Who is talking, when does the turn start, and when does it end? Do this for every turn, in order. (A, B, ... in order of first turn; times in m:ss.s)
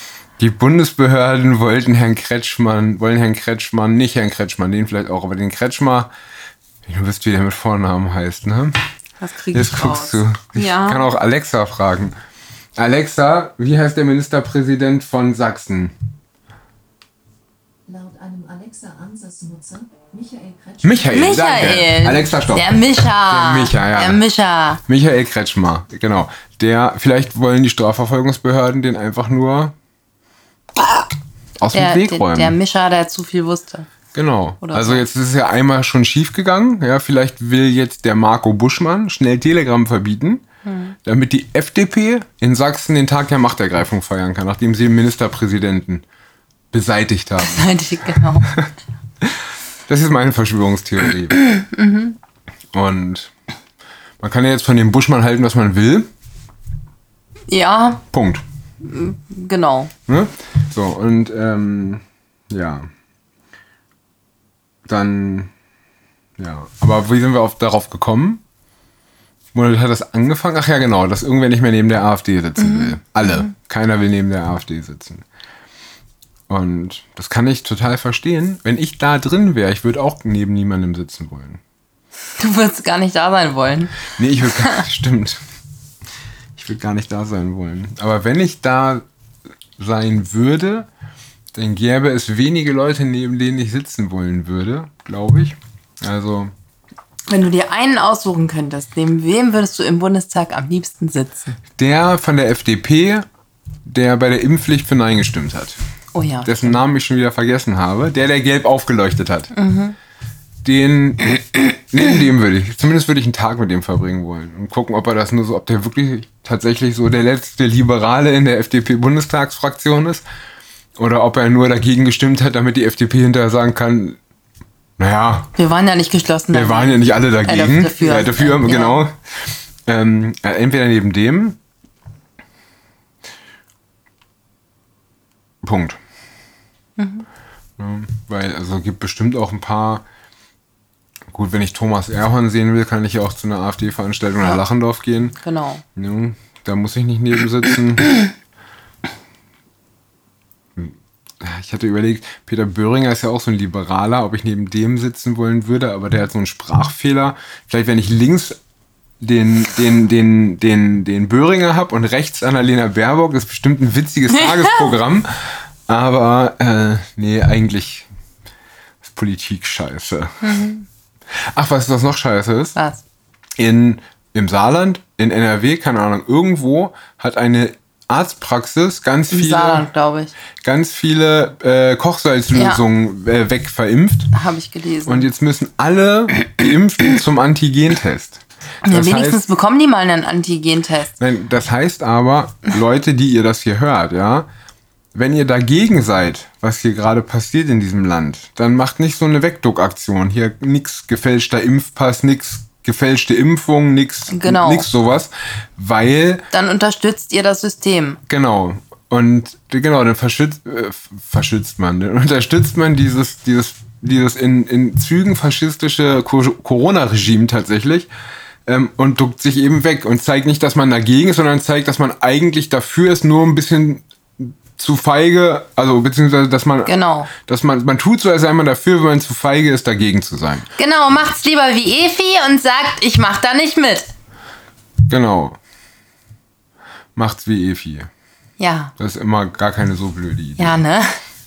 0:00.4-0:06.1 A
0:06.9-0:08.8 A
0:09.2-0:11.1 B
0:09.5-0:12.1 A
0:12.8-0:15.9 A
0:17.9-0:20.8 C
0:20.8-0:22.7 A
0:21.1-0:24.8 B
0:23.2-0:24.2 A
0:24.9-0:29.8 A
0:31.6-0:32.6 A
0:31.7-0:33.9 B
0:34.1-0:40.4 A
0:34.6-0:35.0 B
0:40.6-0:41.0 B
0:41.0-0:46.0 A
0:46.7-0:47.7 A
0:47.4-0:48.5 B
0:49.9-0:51.4 A
0:51.4-0:52.2 B
0:52.7-0:53.3 A
0:54.2-0:56.1 A
0:57.5-0:58.0 B
0:58.1-0:58.4 A
0:58.8-0:59.9 B
1:00.1-1:02.9 A
1:04.9-1:05.5 A
1:06.4-1:08.4 A
1:09.5-1:15.2 A
1:12.6-1:13.5 B
1:16.5-1:21.6 A
1:22.4-1:24.0 B
1:24.2-1:25.4 A
1:24.6-1:24.8 B
1:26.6-1:29.0 A
1:29.8-1:30.9 A
1:31.5-1:36.5 A
1:37.3-1:41.6 B
1:41.8-1:43.3 A
1:43.9-1:45.8 A
1:46.1-1:46.8 B
1:46.4-1:49.5 A
1:49.5-1:50.0 B
1:50.6-2:00.2 A
2:01.0-2:04.2 A
2:05.0-2:05.5 A
2:05.6-2:09.1 B
2:06.5-2:09.2 A
2:09.9-2:11.6 A
2:15.6-2:16.0 A
2:17.0-2:17.3 B
2:17.8-2:20.0 A
2:21.3-2:25.4 A
2:25.4-2:25.8 B
2:26.0-2:28.2 A
2:30.8-2:38.6 A
2:39.2-2:45.3 A
2:45.9-2:48.1 A
2:49.0-2:50.4 A
2:50.4-2:50.9 B
2:51.6-2:52.8 A
2:52.8-2:53.0 B
2:53.6-2:59.9 A
2:59.3-3:00.3 B
3:00.6-3:04.3 A
3:02.5-3:02.8 B
3:04.3-3:05.3 B
3:05.1-3:09.4 A
3:08.8-3:11.1 B
3:11.2-3:14.5 A
3:15.2-3:26.4 A
3:24.3-3:24.9 B
3:26.5-3:28.2 B
3:28.3-3:38.1 A
3:38.7-3:50.7 A
3:46.9-3:47.3 B
3:50.8-3:54.1 B
3:55.1-3:55.6 A
3:57.2-3:58.1 A
3:58.6-3:58.9 B
3:59.0-4:00.8 A
4:00.6-4:01.1 B